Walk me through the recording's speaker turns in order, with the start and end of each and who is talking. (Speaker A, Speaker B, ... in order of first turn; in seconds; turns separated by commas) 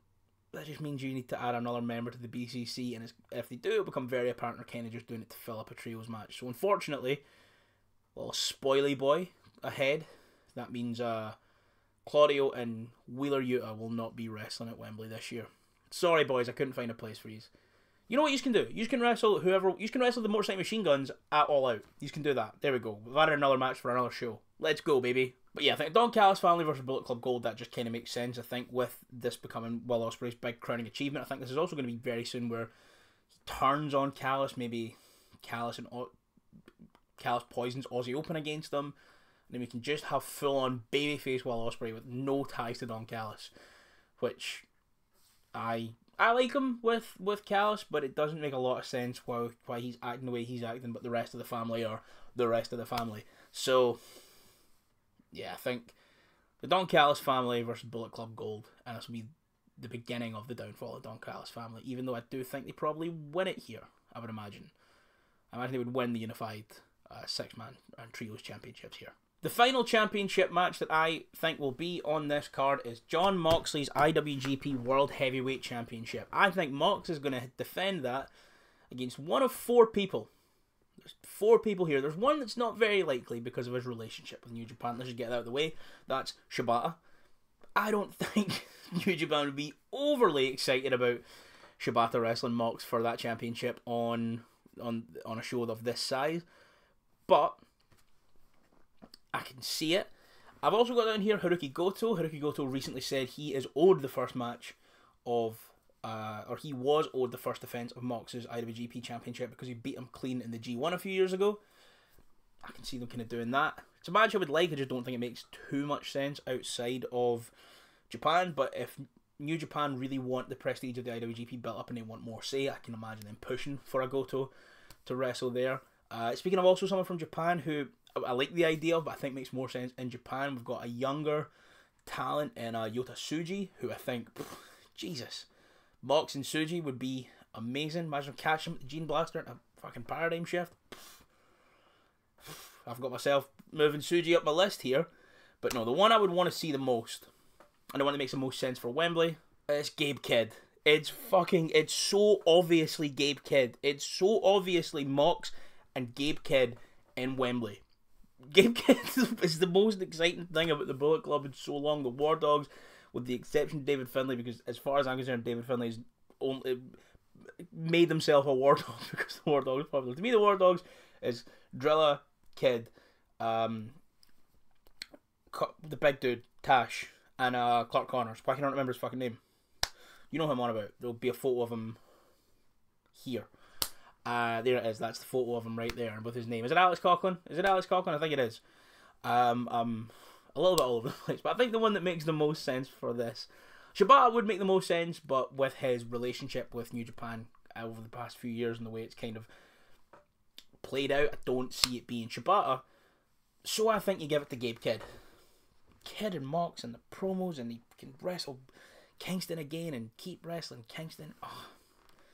Speaker A: 0.5-7.2, Speaker A: 8.2-11.4, Speaker A: 12.0-17.5, Speaker A: 18.1-32.7, Speaker A: 33.4-36.1, Speaker A: 37.2-39.0, Speaker A: 39.5-43.5, Speaker A: 44.2-44.7, Speaker A: 45.5-54.0, Speaker A: 55.3-56.0, Speaker A: 56.6-59.3, Speaker A: 59.8-64.7, Speaker A: 65.5-78.3, Speaker A: 78.9-80.3, Speaker A: 81.0-87.0, Speaker A: 87.8-91.2, Speaker A: 91.8-96.5, Speaker A: 97.3-97.6, Speaker A: 99.3-100.1, Speaker A: 100.6-111.6, Speaker A: 112.6-117.5, Speaker A: 118.1-124.5, Speaker A: 125.0-131.5, Speaker A: 132.1-135.5, Speaker A: 136.0-141.2, Speaker A: 142.4-145.1, Speaker A: 145.6-147.3, Speaker A: 147.9-157.8, Speaker A: 158.4-166.9, Speaker A: 167.5-174.0, Speaker A: 175.5-179.4, Speaker A: 180.3-182.0, Speaker A: 183.1-183.5, Speaker A: 184.2-188.6, Speaker A: 189.2-199.5, Speaker A: 200.8-202.8, Speaker A: 203.6-205.1, Speaker A: 206.0-208.7, Speaker A: 209.2-211.7